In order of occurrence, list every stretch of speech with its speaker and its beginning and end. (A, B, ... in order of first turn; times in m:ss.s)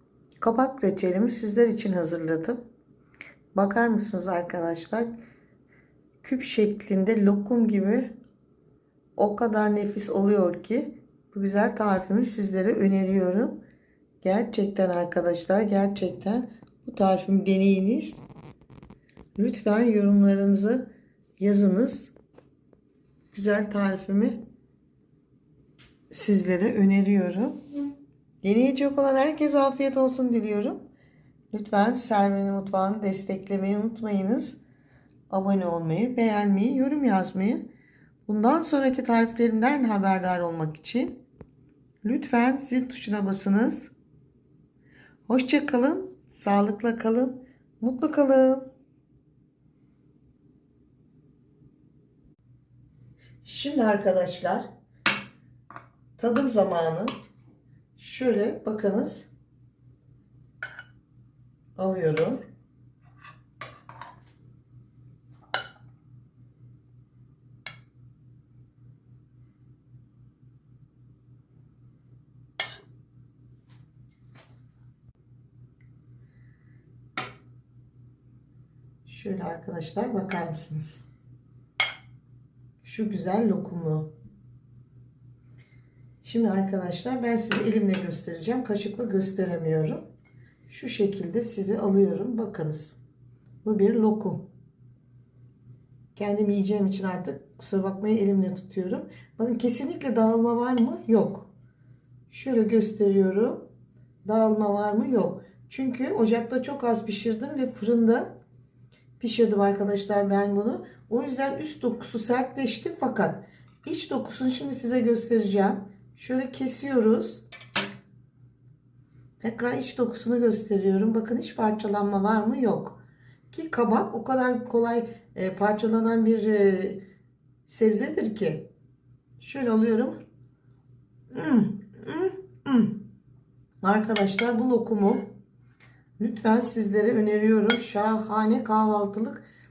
0:00.4-0:02.6 A
0:03.5-0:05.1 A
0:06.2-0:08.1 A
0:09.2-0:13.6 A
0:14.2-0:18.2 A
0:19.4-0:20.9 A
0:21.4-0:22.1 A
0:23.3-0:24.4 A
0:26.1-0:27.6 A
0:28.4-0:30.8 A
0:31.5-0:34.6 A
0:35.3-0:37.6 A
0:38.2-0:41.2 A
0:42.0-0:43.9 A
0:45.3-0:48.7 A
0:53.4-0:54.7 A
0:56.2-0:57.1 A
0:58.0-0:59.3 A
1:01.8-1:02.4 A
1:19.0-1:21.0 A
1:22.8-1:24.1 A
1:26.2-1:30.0 A
1:30.7-1:33.0 A
1:33.6-1:34.5 A
1:36.1-1:41.5 A
1:42.3-1:43.7 A
1:44.2-1:48.3 A
1:49.2-1:57.4 A
1:59.4-2:03.0 A
2:03.5-2:07.0 A
2:07.7-2:08.7 A
2:09.4-2:10.2 A
2:11.3-2:13.0 A
2:13.8-2:15.2 A
2:16.2-2:19.4 A